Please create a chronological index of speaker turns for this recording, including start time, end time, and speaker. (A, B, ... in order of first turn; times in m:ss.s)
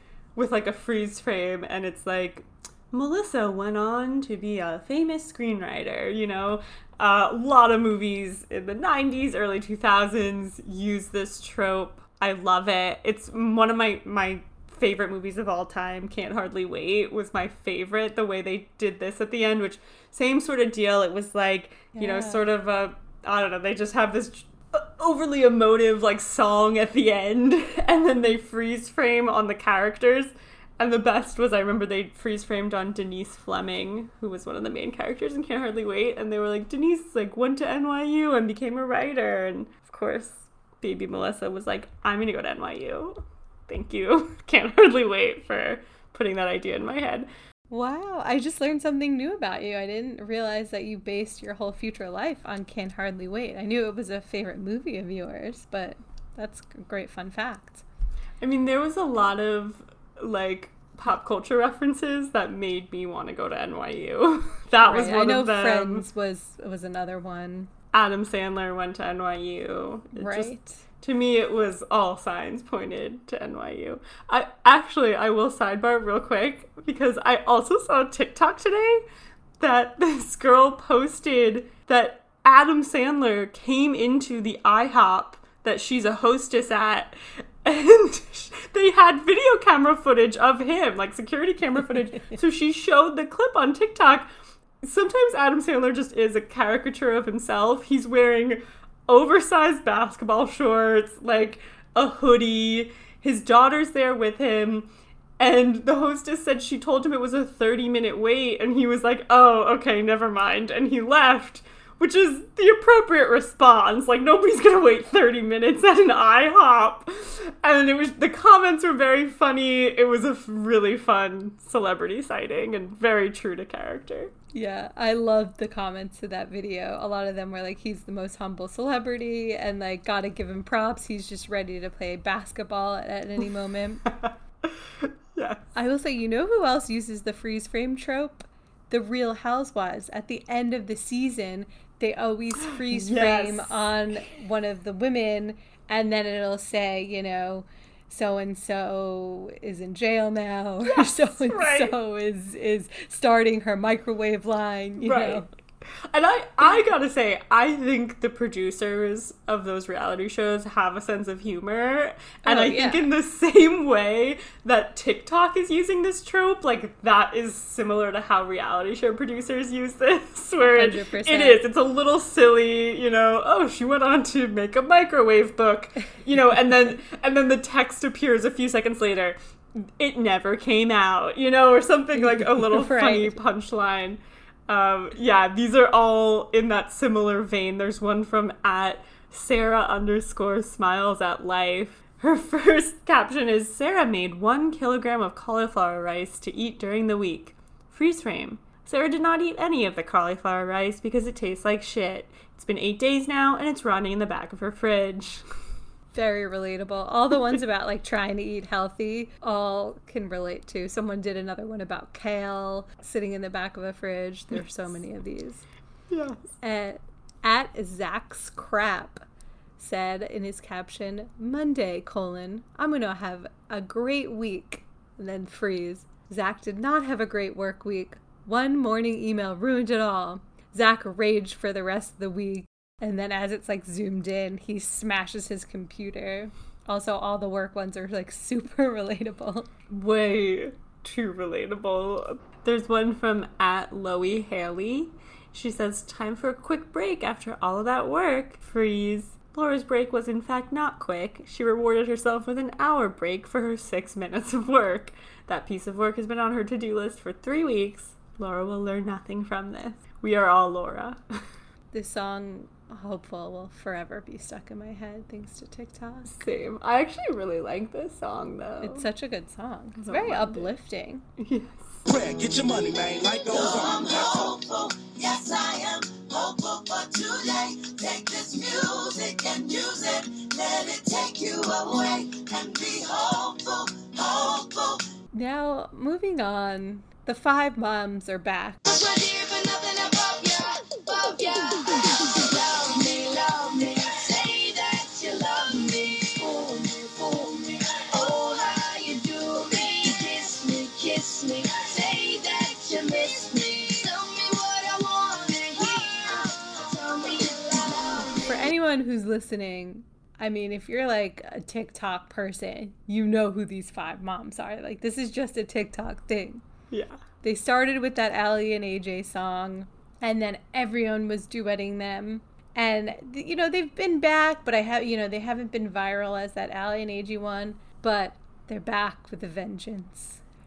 0:00.4-0:47.3 A
0:22.0-0:22.4 B
0:47.7-0:57.8 B
0:58.4-1:06.1 A
1:04.8-1:07.7 B
1:07.9-1:19.0 A
1:10.2-1:10.8 B
1:19.6-1:34.3 A
1:34.8-1:44.9 A
1:45.4-2:04.3 A
2:04.5-2:14.0 B
2:14.1-2:15.6 A
2:15.8-2:35.5 B
2:22.7-2:23.9 A
2:30.8-2:32.0 A
2:35.0-2:35.5 A
2:36.1-3:25.4 A
2:42.4-2:43.1 B
2:50.6-2:51.6 B
3:02.2-3:03.4 B
3:26.1-3:35.6 B
3:36.1-3:36.5 A
3:36.6-3:39.2 B
3:39.8-3:59.7 B
3:59.9-4:21.2 A
4:21.9-4:26.4 B
4:26.3-4:29.1 A
4:28.8-4:31.2 B
4:30.0-4:30.7 A
4:31.4-4:32.1 A
4:32.1-4:34.5 C
4:33.4-4:45.0 D
4:45.3-4:48.8 B
4:48.9-5:08.7 D
5:08.4-5:16.6 B
5:16.9-5:17.2 A
5:17.4-5:30.4 B